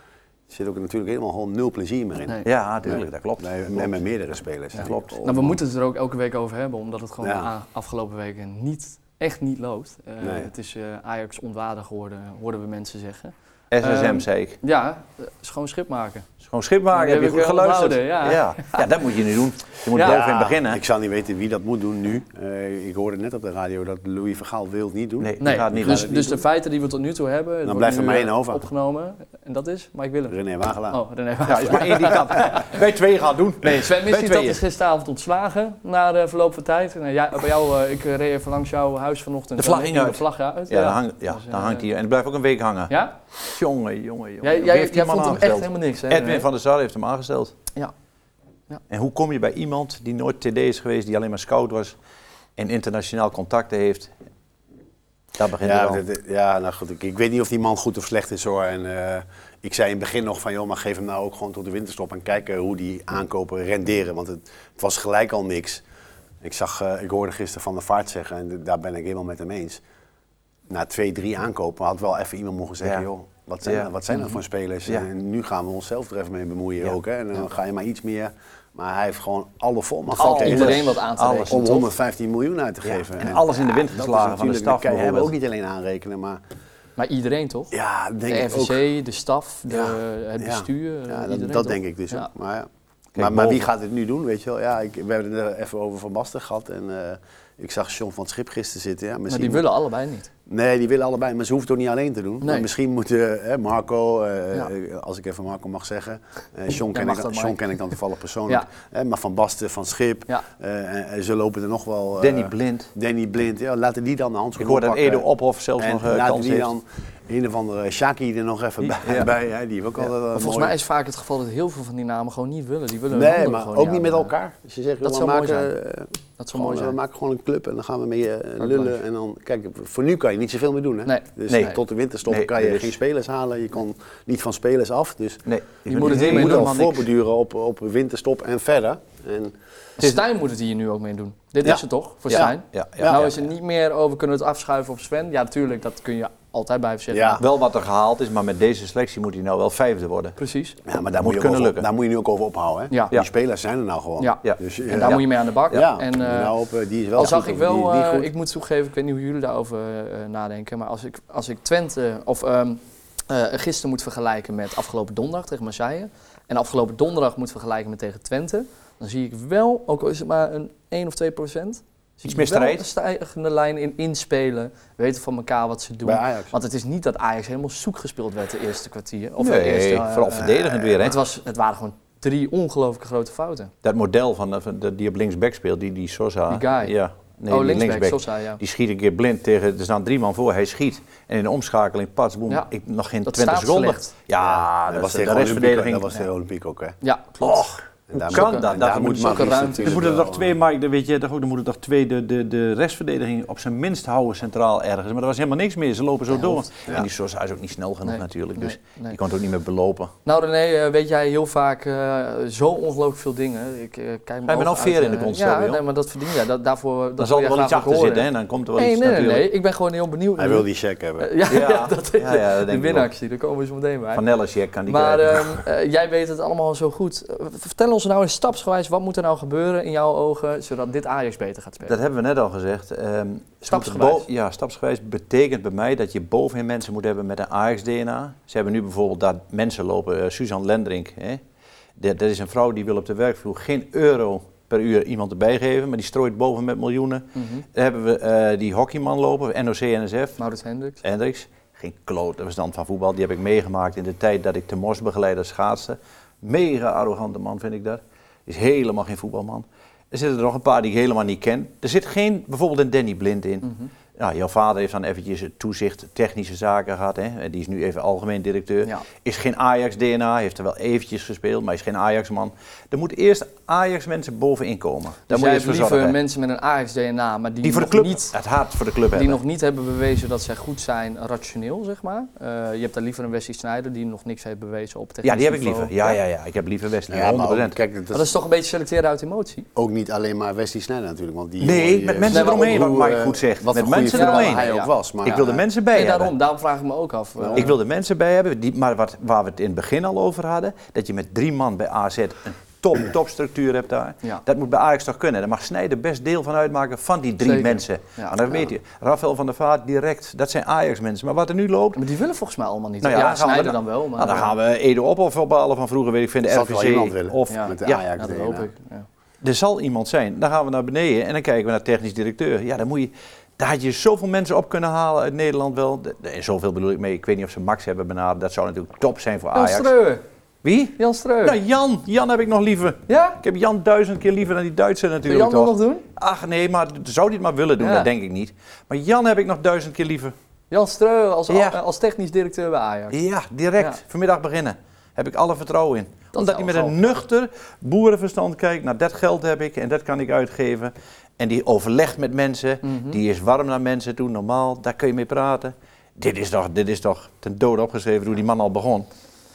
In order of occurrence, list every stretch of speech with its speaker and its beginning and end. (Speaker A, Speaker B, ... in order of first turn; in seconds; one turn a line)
Speaker A: 0.5-5.6
Speaker B: 2.5-4.0
Speaker C: 4.8-16.3
Speaker B: 4.8-5.2
Speaker A: 7.2-7.5
Speaker A: 10.2-10.5
Speaker B: 13.7-14.6
Speaker B: 16.4-20.8
Speaker C: 16.9-18.8
Speaker C: 19.9-20.2
Speaker A: 20.0-26.4
Speaker B: 25.2-26.2
Speaker C: 25.4-30.4
Speaker A: 27.6-28.6
Speaker A: 30.3-31.0
Speaker C: 30.9-32.7
Speaker B: 31.4-34.6
Speaker C: 33.6-41.9
Speaker B: 39.6-47.5
Speaker C: 42.9-43.1
Speaker C: 44.4-46.5
Speaker B: 48.9-52.0
Speaker B: 52.6-54.1
Speaker B: 55.4-56.0
Speaker A: 55.6-65.8
Speaker A: 66.4-69.8
Speaker A: 70.7-86.4
Speaker C: 80.2-81.9
Speaker B: 80.2-81.8
Speaker B: 82.9-85.3
Speaker C: 87.0-87.8
Speaker A: 87.7-88.8
Speaker C: 88.3-92.3
Speaker A: 89.7-99.7
Speaker B: 93.2-93.7
Speaker C: 99.3-100.3
Speaker A: 100.5-115.3
Speaker C: 102.4-102.7
Speaker C: 106.9-107.7
Speaker B: 112.2-112.9
Speaker B: 114.6-116.7
Speaker A: 115.8-120.8
Speaker B: 118.8-119.3
Speaker C: 120.3-124.3
Speaker A: 123.1-139.6
Speaker C: 125.0-125.7
Speaker C: 126.4-127.0
Speaker C: 128.6-129.0
Speaker C: 131.1-131.7
Speaker B: 131.5-133.0
Speaker B: 135.5-137.1
Speaker C: 135.9-136.7
Speaker C: 140.0-147.4
Speaker B: 142.3-143.4
Speaker A: 142.3-143.3
Speaker A: 147.1-147.4
Speaker B: 147.4-150.4
Speaker C: 150.4-150.8
Speaker A: 150.9-158.3
Speaker B: 151.1-151.9
Speaker C: 154.2-156.5
Speaker B: 154.4-155.2
Speaker C: 157.2-183.7
Speaker B: 172.3-172.9
Speaker A: 176.0-176.5
Speaker B: 179.4-181.2
Speaker A: 180.5-180.9
Speaker B: 183.8-196.2
Speaker C: 186.5-186.9
Speaker C: 187.5-188.6
Speaker C: 193.2-194.1
Speaker A: 194.4-197.0
Speaker C: 197.0-197.6
Speaker B: 197.4-210.1
Speaker A: 198.1-200.5
Speaker C: 198.3-200.1
Speaker C: 206.3-206.7
Speaker C: 208.1-209.2
Speaker C: 210.2-220.7
Speaker B: 214.5-215.8
Speaker B: 217.2-219.5
Speaker A: 220.4-221.3
Speaker C: 221.2-224.2
Speaker B: 221.5-223.1
Speaker B: 224.1-225.6
Speaker C: 224.9-232.0
Speaker B: 231.8-241.4
Speaker C: 233.7-234.3
Speaker B: 242.0-250.4
Speaker C: 247.3-247.7
Speaker C: 250.4-251.0
Speaker B: 251.0-276.2
Speaker C: 263.6-263.9
Speaker C: 275.3-278.3
Speaker B: 277.6-279.4
Speaker C: 279.1-286.2
Speaker B: 285.2-287.8
Speaker A: 287.1-288.3
Speaker C: 288.1-289.7
Speaker A: 289.8-295.6
Speaker B: 291.6-294.7
Speaker C: 292.3-292.9
Speaker C: 294.0-294.9
Speaker B: 295.2-296.4
Speaker C: 295.9-297.7
Speaker A: 297.4-297.7
Speaker B: 297.6-312.0
Speaker C: 307.4-308.7
Speaker C: 311.9-314.5
Speaker B: 313.0-318.0
Speaker A: 316.5-318.7
Speaker C: 317.5-319.1
Speaker B: 319.4-329.9
Speaker C: 329.5-330.2
Speaker B: 330.6-340.3
Speaker C: 331.0-331.6
Speaker C: 333.1-333.4
Speaker C: 335.3-336.1
Speaker C: 337.8-338.1
Speaker C: 340.7-343.2
Speaker B: 341.5-341.8
Speaker B: 343.1-359.1
Speaker C: 346.3-347.0
Speaker C: 352.8-353.2